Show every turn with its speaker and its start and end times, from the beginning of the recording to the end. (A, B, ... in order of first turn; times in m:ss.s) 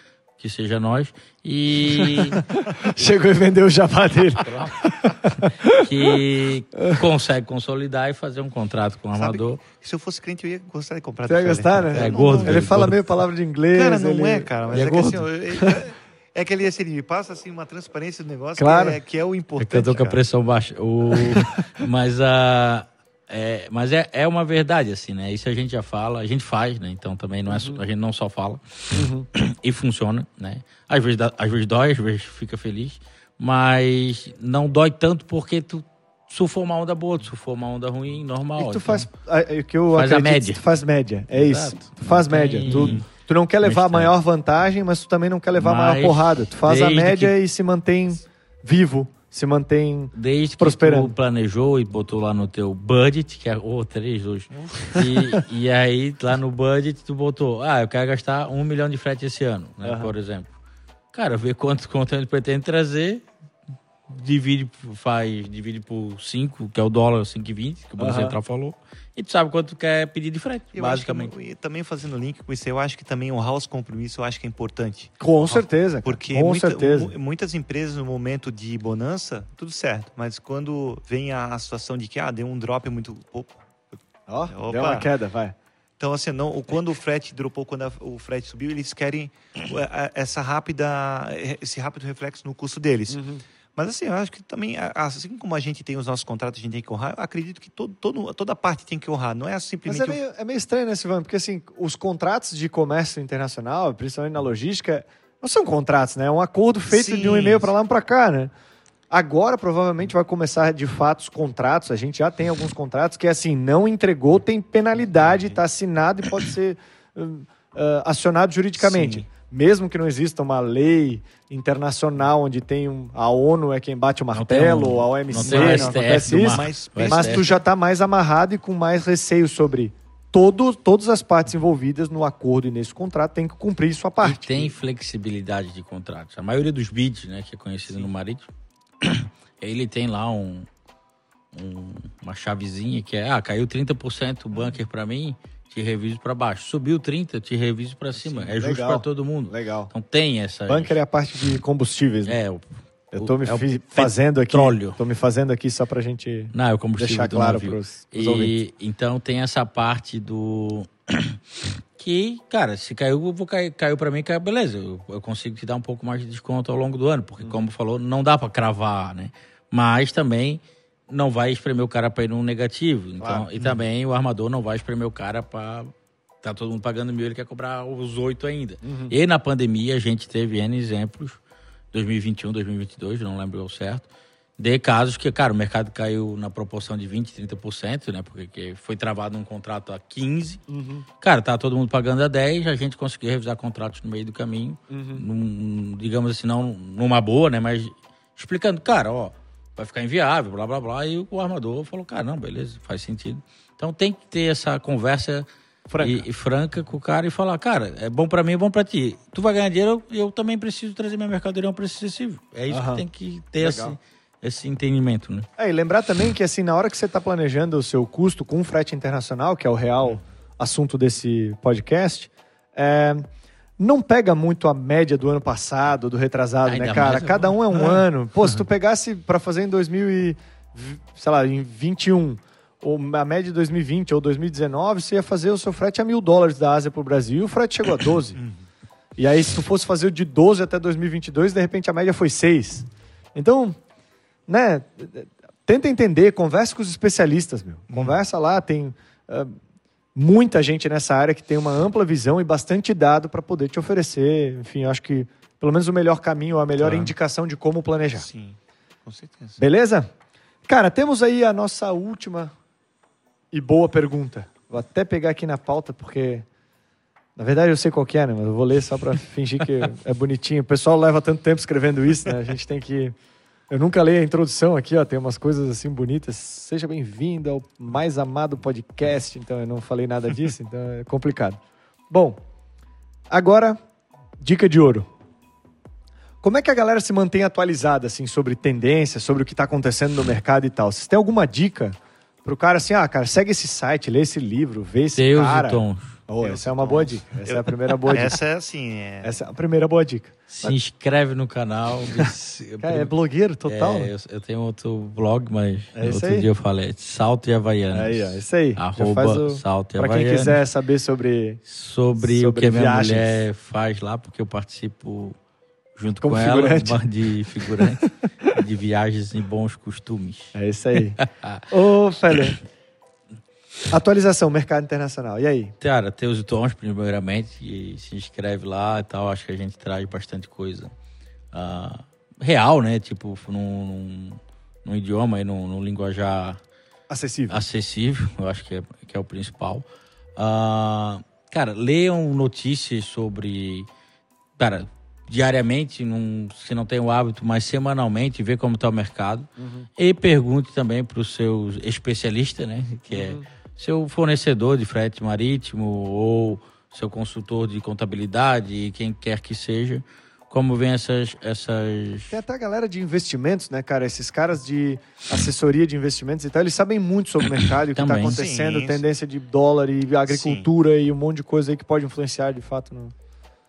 0:00.4-0:02.4 A
0:01.9-0:06.2 B
0:04.4-0:09.6 A
0:06.8-0:07.0 B
0:09.2-0:12.7 C
0:11.3-0:15.8 B
0:11.9-0:13.0 A
0:13.7-0:20.2 C
0:14.7-0:15.2 A
0:18.6-0:19.0 B
0:19.6-0:39.1 A
0:27.5-0:27.8 B
0:28.9-0:29.3 B
0:38.6-0:51.1 B
0:39.9-0:40.6 A
0:41.3-0:43.0 A
0:42.7-0:43.0 C
0:43.6-0:44.1 A
0:45.6-0:47.3 A
0:50.1-1:00.5 A
0:54.6-0:54.9 C
0:59.8-1:00.1 B
1:01.1-1:03.2 A
1:04.1-1:11.3 A
1:08.0-1:08.4 B
1:10.7-1:23.6 C
1:15.2-1:17.1 B
1:24.3-1:25.6 B
1:24.5-1:25.1 C
1:26.0-1:33.2 C
1:33.1-1:33.4 B
1:33.8-1:40.2 C
1:39.9-1:48.5 B
1:46.9-1:47.7 C
1:49.1-2:14.7 B
1:55.2-1:55.6 C
1:58.8-1:59.3 C
2:04.3-2:07.5 A
2:05.4-2:07.6 C
2:14.2-2:18.5 A
2:19.0-2:20.7 A
2:21.5-2:31.0 A
2:28.5-2:29.9 B
2:30.7-2:32.4 B
2:32.2-2:35.0 A
2:33.1-2:38.6 B
2:36.5-2:41.4 A
2:42.0-3:01.4 A
2:53.2-2:53.5 B
2:58.8-2:59.1 B
3:01.9-3:10.6 A
3:10.7-3:11.1 B
3:11.2-3:25.5 A
3:14.9-3:15.2 B
3:25.9-3:26.3 B
3:26.0-3:35.5 A
3:32.7-3:33.0 B
3:33.6-3:34.0 B
3:35.6-3:43.3 B
3:43.8-3:58.4 B
3:46.6-3:47.6 A
3:58.4-3:58.6 C
3:59.2-4:03.8 B
4:04.5-4:09.5 B
4:07.9-4:08.2 C
4:10.2-4:18.3 B
4:16.8-4:17.1 C
4:18.1-4:19.6 C
4:19.6-4:20.1 B
4:20.7-4:22.5 B
4:23.5-4:26.4 B
4:27.4-4:33.2 B
4:33.7-4:42.4 B
4:43.3-4:43.8 B
4:44.4-4:45.1 B
4:46.4-4:58.4 B
4:55.1-4:56.2 A
4:56.4-4:59.4 C
4:59.2-5:00.8 B
5:00.5-5:03.1 A
5:02.1-5:04.1 B
5:03.6-5:10.6 A
5:05.9-5:06.5 B
5:07.9-5:11.6 B
5:11.6-5:15.4 A
5:12.2-5:13.4 B
5:16.0-5:20.6 A
5:16.2-5:17.0 B
5:20.5-5:22.6 B
5:21.2-5:21.7 A
5:23.9-5:25.7 B
5:25.8-5:30.9 A
5:31.5-5:36.6 A
5:37.1-5:37.6 B
5:37.5-5:39.8 A
5:40.4-5:43.9 A
5:44.6-6:02.4 A
5:49.6-5:49.9 B
5:53.1-5:53.4 B
6:02.3-6:13.1 B
6:07.9-6:08.4 A
6:08.2-6:09.0 C
6:10.3-6:10.7 C